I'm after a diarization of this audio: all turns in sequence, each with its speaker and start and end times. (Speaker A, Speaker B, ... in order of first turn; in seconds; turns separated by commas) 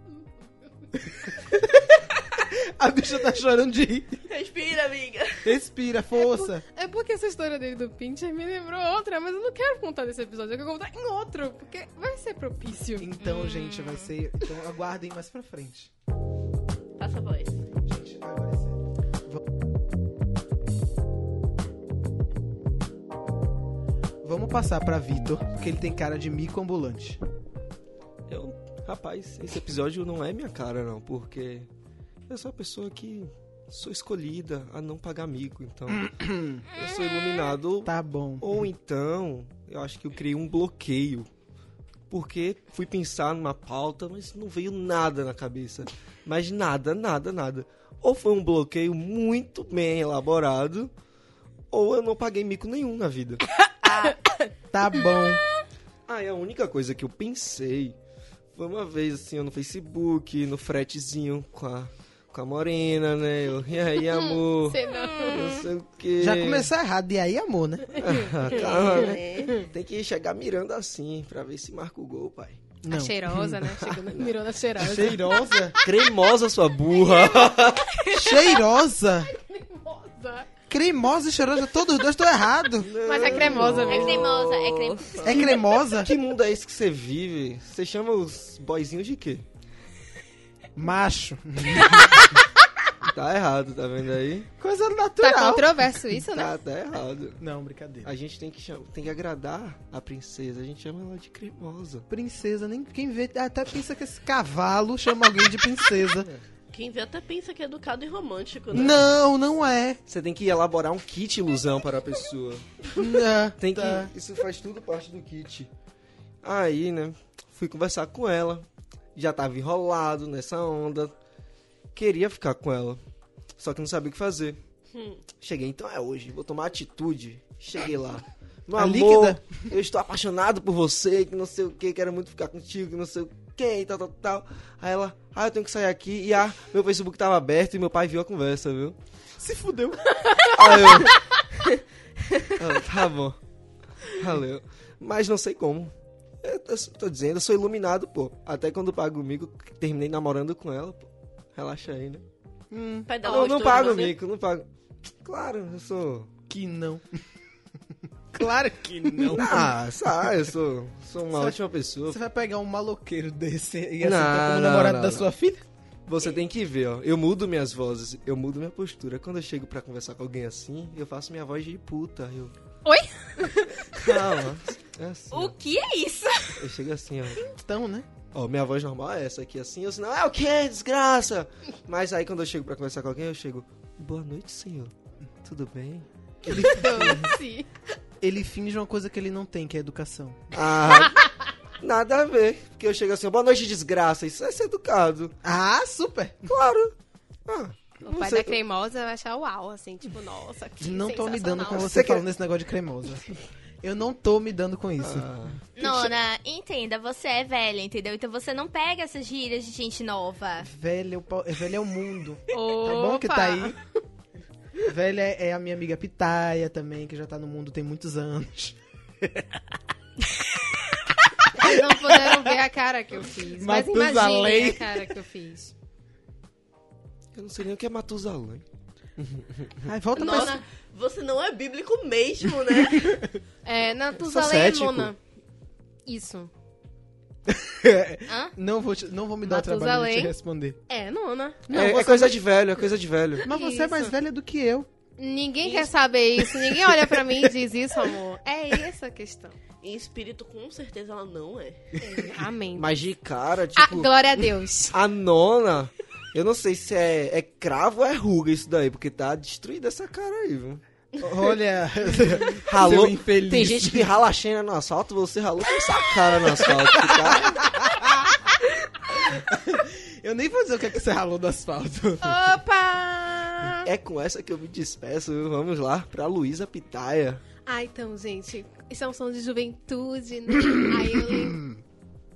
Speaker A: 0.9-4.2, Speaker B: 4.3-5.5, Speaker A: 5.4-6.6, Speaker C: 6.2-13.1, Speaker A: 13.0-15.9, Speaker D: 13.2-14.1, Speaker B: 17.0-17.6, Speaker A: 17.8-19.4, Speaker A: 24.2-27.2, Speaker E: 28.3-31.7, Speaker E: 32.3-36.1, Speaker A: 35.9-36.6, Speaker E: 36.6-41.3, Speaker D: 36.8-37.5, Speaker A: 37.8-38.7, Speaker E: 42.1-50.9, Speaker E: 51.7-53.5, Speaker A: 54.7-55.4, Speaker E: 56.1-58.0, Speaker E: 58.5-66.7, Speaker C: 64.1-65.6, Speaker D: 64.8-65.7, Speaker A: 66.2-68.2, Speaker E: 68.0-72.6, Speaker B: 68.5-69.6, Speaker A: 72.8-74.0, Speaker C: 72.9-75.9, Speaker A: 74.8-75.8, Speaker E: 75.8-78.0, Speaker D: 78.0-78.4, Speaker A: 78.1-79.3, Speaker C: 79.2-80.5, Speaker A: 80.7-82.9, Speaker E: 82.8-84.2, Speaker C: 83.0-84.3, Speaker B: 83.2-85.6, Speaker D: 83.7-85.5, Speaker A: 85.2-86.1, Speaker E: 86.0-89.5, Speaker A: 90.8-92.4, Speaker E: 93.0-94.5, Speaker A: 94.6-96.0, Speaker C: 95.2-96.6, Speaker E: 96.3-97.4, Speaker A: 97.4-98.1, Speaker E: 98.0-102.1, Speaker A: 102.1-106.3, Speaker B: 106.7-109.0, Speaker A: 108.7-110.0, Speaker E: 110.1-112.8, Speaker A: 112.9-114.1, Speaker E: 113.6-115.7, Speaker E: 116.4-121.1, Speaker E: 121.9-123.0, Speaker E: 123.6-124.6, Speaker B: 124.9-125.2, Speaker E: 125.4-139.0, Speaker A: 128.7-129.8, Speaker A: 139.4-140.1, Speaker E: 140.4-141.3, Speaker E: 142.5-143.4, Speaker E: 144.0-152.2, Speaker A: 152.7-153.2, Speaker B: 153.1-154.2, Speaker E: 153.2-154.7, Speaker E: 155.2-156.3, Speaker A: 156.5-157.2, Speaker A: 158.3-160.4, Speaker E: 159.3-162.2, Speaker A: 161.3-165.6, Speaker E: 164.0-165.3, Speaker E: 166.1-172.5, Speaker C: 172.8-174.1, Speaker E: 173.9-175.6, Speaker D: 175.3-176.6, Speaker E: 176.6-177.4, Speaker A: 177.5-178.1, Speaker E: 178.3-184.9, Speaker E: 185.4-186.1, Speaker A: 186.4-187.4, Speaker C: 186.5-187.7, Speaker A: 188.2-191.0, Speaker E: 190.5-191.3, Speaker E: 191.8-195.4, Speaker A: 195.4-196.5, Speaker E: 196.5-196.9, Speaker E: 197.5-198.6, Speaker C: 198.0-201.9, Speaker A: 200.8-205.3, Speaker E: 201.9-202.2, Speaker E: 205.0-205.6, Speaker D: 205.8-210.7, Speaker A: 210.6-213.8, Speaker C: 212.5-213.8, Speaker A: 214.8-219.5, Speaker C: 221.6-225.7, Speaker A: 221.6-222.4, Speaker A: 223.6-225.1, Speaker E: 227.3-228.6, Speaker E: 229.2-229.8, Speaker A: 229.8-230.6, Speaker C: 230.2-230.6, Speaker B: 230.2-233.2, Speaker C: 233.7-235.2, Speaker E: 234.2-235.1, Speaker C: 236.1-236.5, Speaker A: 237.5-240.8, Speaker D: 238.3-238.5, Speaker C: 239.4-240.4, Speaker C: 240.9-241.6, Speaker A: 241.7-242.4, Speaker E: 241.7-243.5, Speaker A: 243.4-244.9, Speaker C: 243.4-244.1, Speaker C: 245.2-249.6, Speaker D: 245.7-245.9, Speaker A: 246.5-247.4, Speaker B: 249.8-251.9, Speaker C: 252.0-252.9, Speaker E: 252.8-254.1, Speaker C: 253.8-255.0, Speaker E: 254.9-260.8, Speaker A: 261.2-264.1, Speaker E: 262.6-267.7, Speaker A: 266.6-268.6, Speaker A: 269.1-272.4, Speaker C: 272.2-273.9, Speaker E: 273.8-277.4, Speaker C: 277.7-281.6, Speaker A: 281.3-281.8